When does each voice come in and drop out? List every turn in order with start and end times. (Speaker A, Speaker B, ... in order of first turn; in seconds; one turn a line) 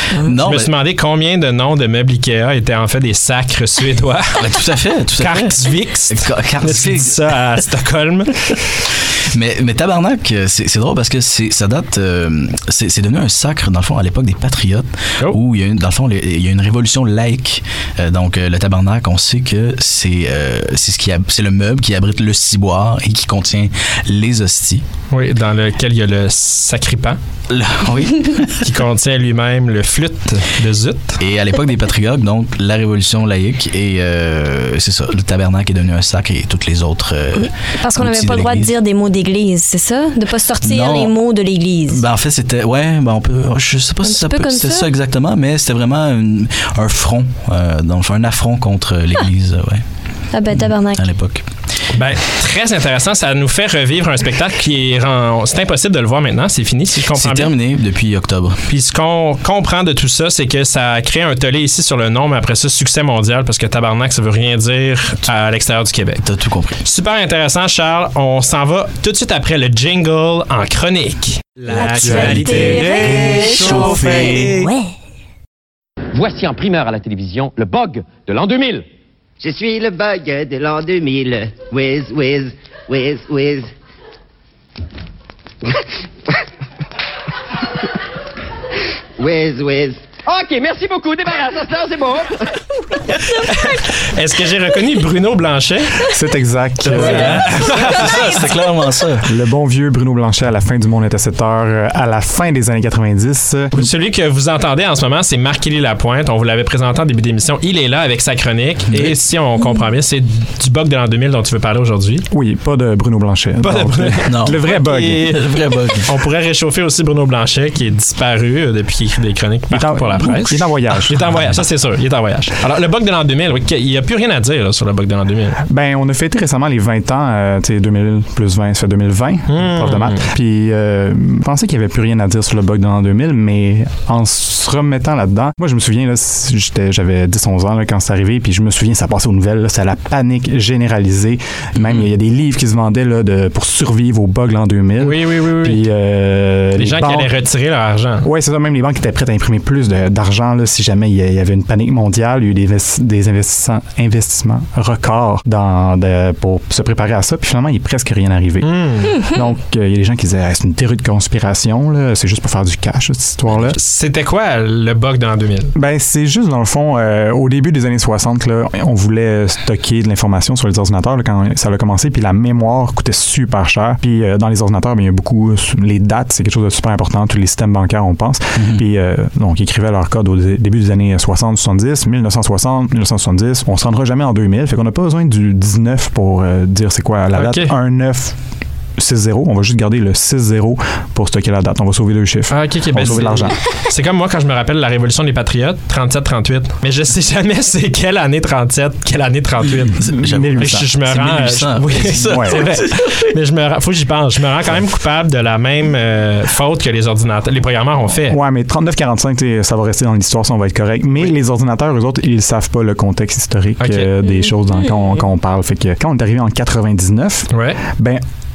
Speaker A: 0.2-0.7
Speaker B: 0.4-8.6
Speaker A: 4.4-5.5
Speaker A: 6.1-7.1
Speaker A: 9.2-24.8
Speaker B: 25.1-27.2
Speaker A: 27.5-28.6
Speaker B: 28.6-31.2
Speaker A: 31.2-38.8
Speaker C: 37.3-42.0
Speaker A: 40.6-41.2
Speaker A: 41.9-49.8
Speaker C: 44.0-44.9
Speaker C: 50.3-51.0
Speaker A: 50.5-51.4
Speaker B: 51.9-57.5
Speaker A: 57.0-58.6
Speaker B: 58.7-66.2
Speaker A: 66.2-66.8
Speaker B: 66.8-74.6
Speaker C: 71.7-74.9
Speaker D: 76.2-78.8
Speaker E: 79.4-83.7
Speaker E: 89.2-90.0
Speaker D: 90.2-92.3
Speaker B: 93.3-96.1
Speaker F: 96.1-98.0
Speaker A: 96.8-99.3
Speaker B: 96.9-98.4
Speaker F: 99.2-103.9
Speaker B: 103.7-112.2
Speaker F: 112.3-115.3
Speaker B: 113.6-114.3
Speaker A: 114.3-116.1
Speaker B: 116.0-125.6
Speaker F: 119.7-121.2
Speaker F: 125.7-147.3
Speaker B: 129.5-130.3
Speaker B: 145.0-145.9
Speaker B: 146.7-148.3
Speaker F: 148.2-158.7
Speaker B: 158.6-159.3
Speaker F: 159.2-163.8
Speaker B: 163.5-165.7
Speaker F: 165.7-188.3
Speaker A: 178.6-178.8
Speaker B: 187.3-187.7
Speaker F: 189.0-193.6
Speaker B: 192.5-208.4
Speaker A: 193.0-193.3
Speaker A: 199.6-203.3
Speaker F: 200.1-200.9
Speaker F: 202.2-202.7
Speaker F: 208.3-218.2
Speaker B: 213.8-214.1
Speaker B: 217.5-217.8